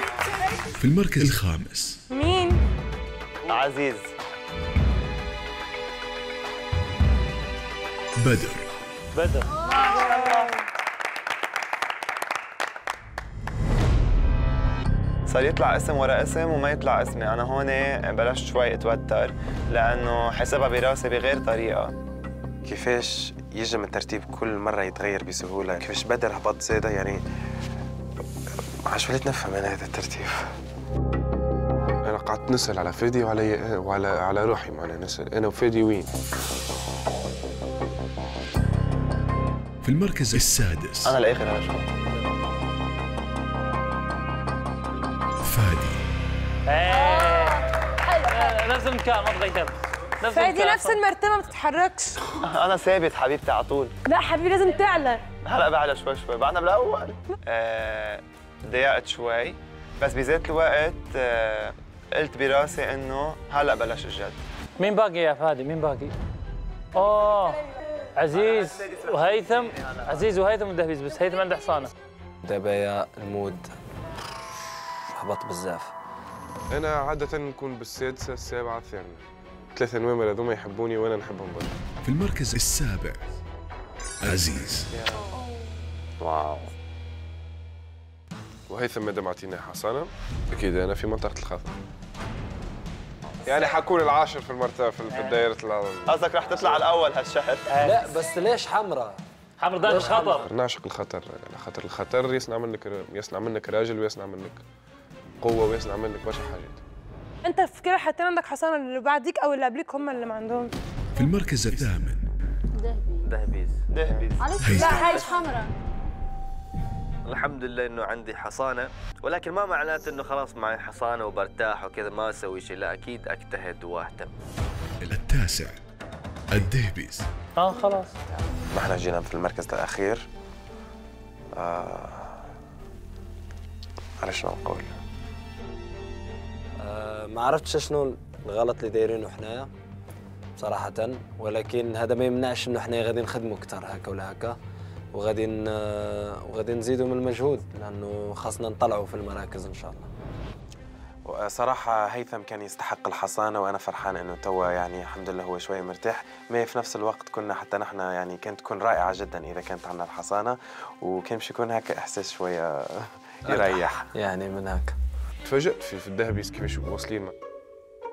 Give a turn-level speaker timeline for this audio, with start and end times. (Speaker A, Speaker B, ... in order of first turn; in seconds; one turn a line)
Speaker A: 0.8-1.9
Speaker B: 2.1-2.6
Speaker C: 3.5-4.1
Speaker A: 8.2-8.7
Speaker D: 9.1-9.6
Speaker B: 9.7-10.5
Speaker C: 9.9-10.5
Speaker C: 15.3-21.9
Speaker E: 22.6-27.2
Speaker E: 28.9-30.5
Speaker F: 32.0-36.1
Speaker A: 39.8-41.1
Speaker C: 41.0-41.8
Speaker A: 45.4-46.0
Speaker D: 46.7-51.0
Speaker G: 47.0-47.4
Speaker B: 50.3-52.2
Speaker C: 52.4-53.9
Speaker B: 54.0-55.2
Speaker C: 55.4-64.4
Speaker D: 64.8-66.1
Speaker D: 66.9-67.6
Speaker D: 68.2-71.9
Speaker H: 72.4-73.7
Speaker H: 75.1-75.9
Speaker F: 76.7-81.7
Speaker A: 82.0-83.2
Speaker A: 84.2-84.9
Speaker F: 84.9-85.2
Speaker I: 86.2-86.7
Speaker F: 88.7-91.7
Speaker F: 93.4-96.9
Speaker D: 95.1-95.5
Speaker C: 96.1-97.6
Speaker D: 97.7-98.0
Speaker H: 97.8-99.2
Speaker D: 99.6-100.5
Speaker H: 99.8-100.5
Speaker F: 100.5-104.6
Speaker F: 105.4-106.8
Speaker B: 107.4-110.7
Speaker A: 111.1-112.2
Speaker G: 112.7-113.3
Speaker I: 113.2-114.2
Speaker C: 113.9-114.9
Speaker G: 114.4-115.7
Speaker A: 114.6-115.0
Speaker B: 114.7-115.4
Speaker I: 117.2-124.3
Speaker A: 125.0-125.8
Speaker A: 126.5-127.2
Speaker D: 127.5-128.1
Speaker E: 128.7-130.2
Speaker E: 131.6-132.4
Speaker E: 134.2-134.9
Speaker H: 136.8-139.7
Speaker H: 140.6-144.6
Speaker H: 145.1-150.1
Speaker E: 151.2-164.1
Speaker H: 163.4-164.9
Speaker F: 165.4-167.3